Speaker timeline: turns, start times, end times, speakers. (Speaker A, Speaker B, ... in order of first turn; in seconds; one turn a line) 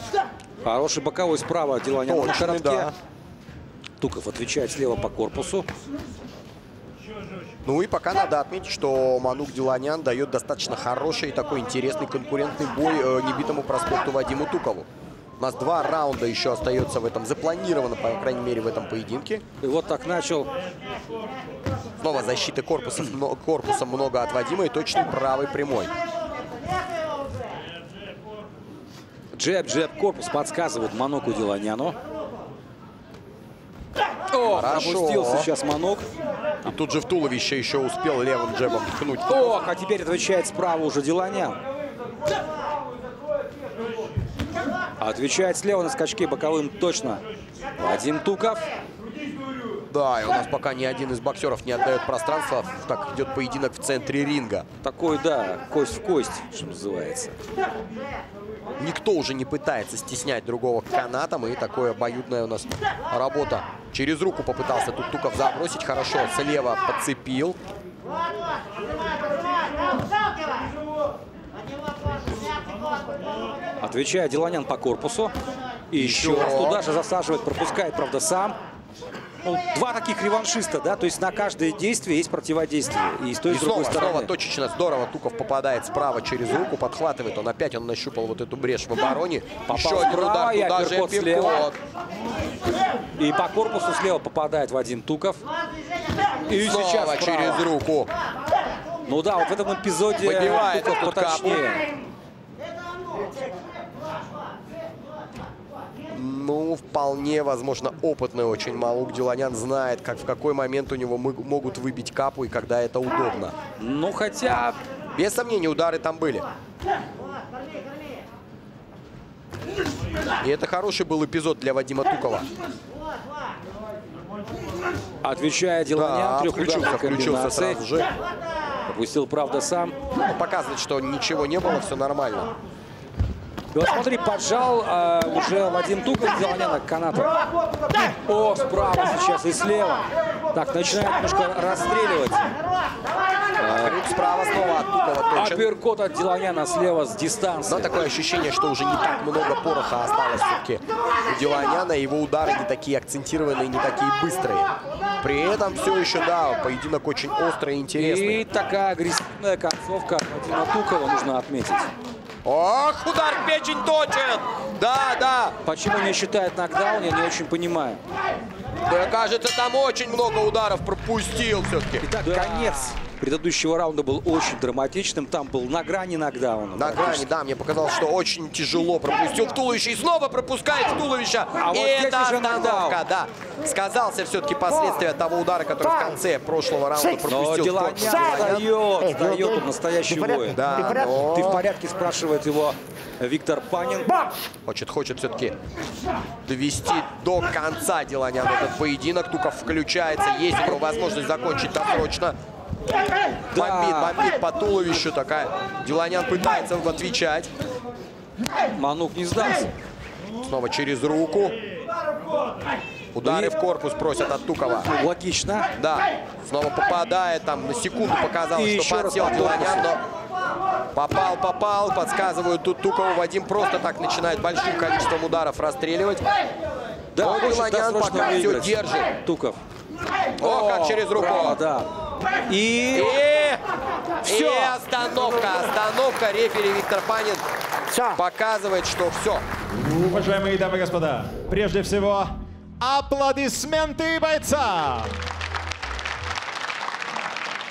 Speaker A: 0.6-2.9
Speaker B: 2.1-3.0
Speaker A: 4.0-5.7
Speaker B: 7.7-14.9
Speaker B: 15.4-19.4
Speaker A: 19.6-20.5
Speaker B: 22.0-25.9
Speaker A: 29.3-32.0
Speaker A: 34.3-36.0
Speaker B: 34.5-35.5
Speaker B: 36.6-39.6
Speaker A: 39.3-41.6
Speaker A: 45.0-47.2
Speaker A: 47.8-48.7
Speaker B: 49.9-54.7
Speaker A: 54.8-57.4
Speaker B: 58.8-67.6
Speaker A: 73.8-75.3
Speaker A: 75.9-78.6
Speaker B: 76.0-76.9
Speaker A: 79.4-84.3
Speaker B: 83.5-91.8
Speaker A: 89.7-91.7
Speaker A: 93.2-95.4
Speaker A: 96.5-97.7
Speaker B: 96.5-98.1
Speaker A: 99.1-101.8
Speaker B: 100.2-101.8
Speaker B: 106.1-113.6
Speaker A: 113.8-114.8
Speaker B: 115.1-116.5
Speaker B: 120.4-122.5
Speaker A: 125.2-127.8
Speaker B: 125.9-128.1
Speaker A: 128.9-129.9
Speaker B: 130.3-132.5
Speaker A: 133.7-137.3
Speaker A: 138.0-142.5
Speaker B: 143.6-145.7
Speaker A: 143.6-144.1
Speaker A: 145.3-148.0
Speaker B: 147.7-158.4
Speaker A: 158.0-161.9
Speaker B: 162.4-165.6
Speaker A: 165.7-168.0
Speaker B: 168.8-172.1
Speaker A: 172.0-177.3
Speaker B: 176.7-188.7
Speaker A: 181.6-183.0
Speaker A: 187.2-194.1
Speaker C: 188.3-191.3
Speaker B: 190.5-191.6
Speaker B: 194.7-195.6
Speaker B: 196.4-202.4
Speaker A: 203.5-204.2
Speaker B: 203.5-207.5
Speaker A: 208.7-209.7
Speaker B: 210.5-211.6
Speaker B: 213.1-214.9
Speaker A: 213.2-213.5
Speaker A: 214.9-215.7
Speaker B: 215.7-220.0
Speaker A: 218.5-219.9
Speaker B: 220.9-226.3
Speaker A: 227.1-229.6
Speaker B: 227.2-229.1
Speaker B: 230.4-231.6
Speaker A: 230.4-231.9
Speaker A: 232.5-233.2
Speaker B: 232.9-233.6
Speaker B: 234.2-237.4
Speaker A: 234.2-234.8
Speaker C: 237.9-238.2
Speaker B: 238.1-239.4
Speaker D: 239.7-245.2